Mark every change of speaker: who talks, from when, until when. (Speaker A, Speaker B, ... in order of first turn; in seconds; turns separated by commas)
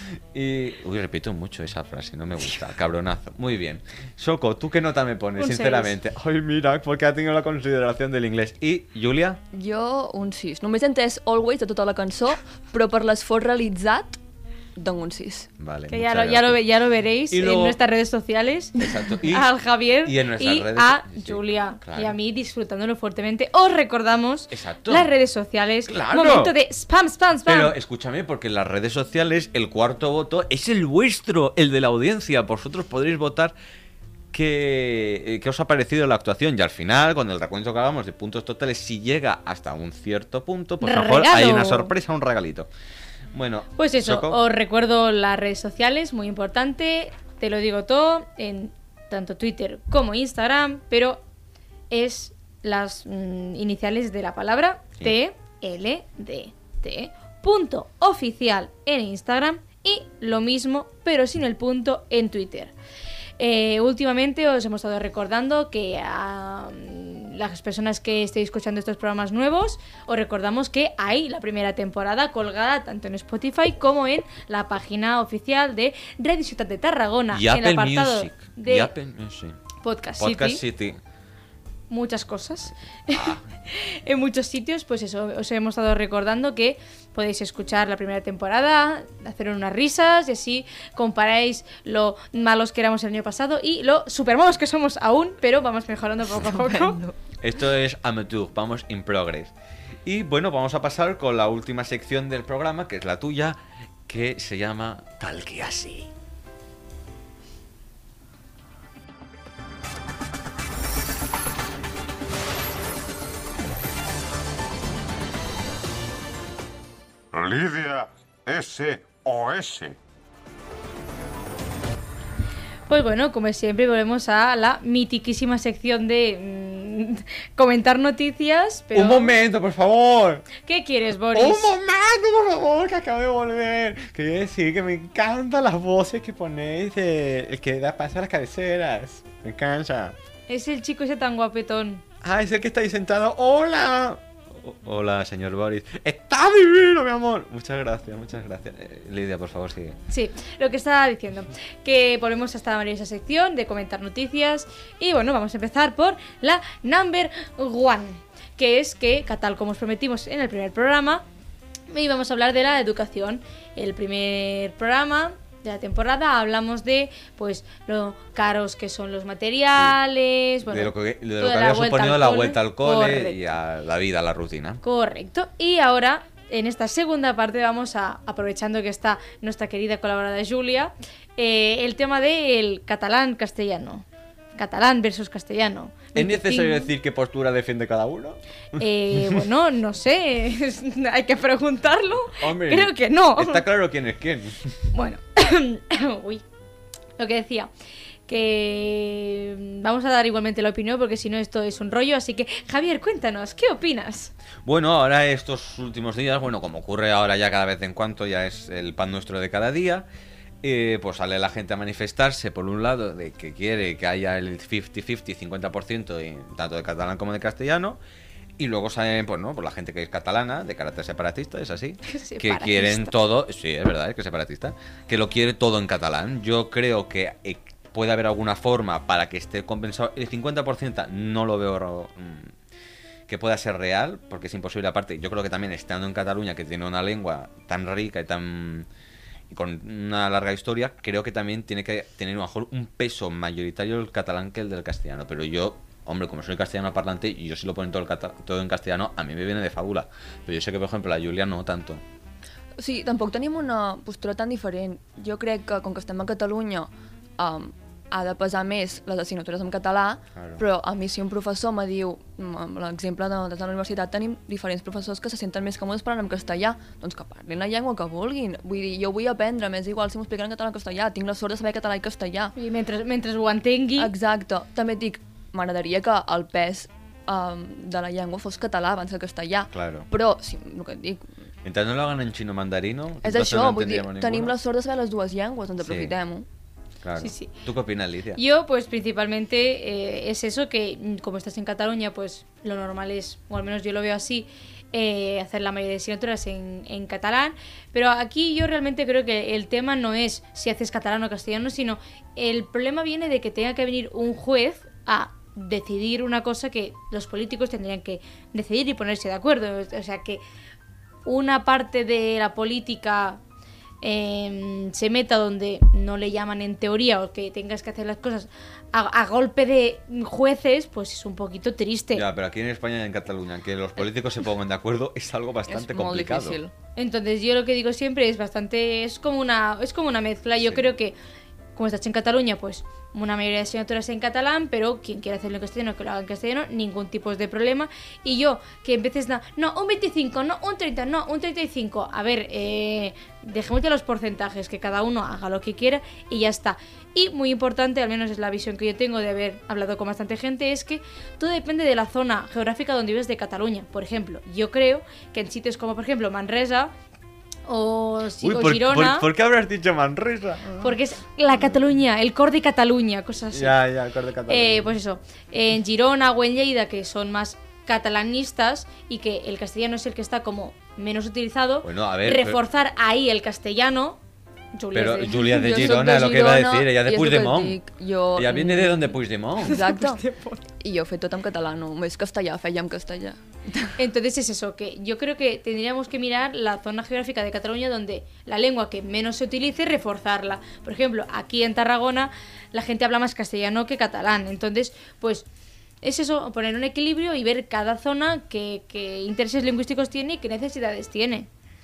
Speaker A: 0.3-9.4, Speaker B: 5.4-6.0, Speaker C: 9.5-14.2, Speaker C: 14.8-15.5, Speaker A: 15.6-16.6, Speaker B: 15.9-27.7, Speaker A: 17.3-17.8, Speaker A: 18.8-19.5, Speaker A: 20.0-22.1, Speaker A: 24.5-25.1, Speaker A: 25.9-26.5, Speaker A: 27.4-33.5, Speaker A: 34.3-42.7, Speaker B: 40.8-41.9, Speaker A: 43.3-44.4, Speaker B: 43.8-51.2, Speaker B: 51.9-62.7, Speaker B: 63.4-78.9, Speaker A: 77.3-79.6, Speaker B: 79.8-80.6, Speaker A: 80.2-81.0, Speaker B: 81.9-97.0, Speaker A: 83.1-83.4, Speaker C: 96.5-97.1, Speaker A: 97.4-99.5, Speaker A: 100.0-106.1, Speaker D: 117.3-120.0, Speaker B: 122.9-129.3, Speaker A: 128.9-130.5, Speaker B: 130.6-131.7, Speaker A: 131.3-140.1, Speaker B: 140.5-142.0, Speaker A: 142.2-150.0, Speaker B: 150.1-161.2, Speaker B: 161.9-173.4, Speaker A: 170.7-174.8, Speaker B: 174.8-186.9, Speaker A: 186.1-189.4, Speaker B: 188.8-193.6, Speaker A: 192.4-194.7, Speaker B: 194.9-196.4, Speaker B: 197.2-197.7, Speaker B: 198.3-204.3, Speaker A: 204.6-210.1, Speaker A: 210.6-218.0, Speaker A: 218.6-232.5, Speaker B: 222.1-223.1, Speaker A: 233.3-238.9, Speaker A: 239.5-252.0, Speaker C: 252.8-272.5, Speaker A: 260.3-260.6, Speaker B: 272.6-274.1, Speaker C: 274.0-281.3, Speaker A: 279.7-280.1, Speaker A: 281.6-284.5, Speaker C: 283.2-286.4, Speaker A: 285.8-286.1, Speaker A: 287.0-288.4, Speaker B: 287.2-287.5, Speaker B: 288.4-310.4, Speaker B: 311.2-313.4, Speaker B: 314.0-322.2, Speaker A: 322.1-326.6, Speaker C: 325.7-326.7, Speaker B: 326.9-331.1, Speaker A: 330.6-330.9, Speaker B: 331.8-356.9, Speaker B: 357.7-359.3, Speaker A: 358.4-360.9, Speaker B: 360.8-363.8, Speaker A: 363.5-364.9, Speaker B: 364.5-374.2, Speaker A: 371.8-372.6, Speaker B: 374.7-375.9, Speaker A: 374.9-377.8, Speaker C: 375.4-379.1, Speaker A: 378.3-379.8, Speaker B: 379.6-380.6, Speaker C: 379.6-380.2, Speaker C: 380.8-383.9, Speaker B: 384.0-395.4, Speaker B: 396.0-401.5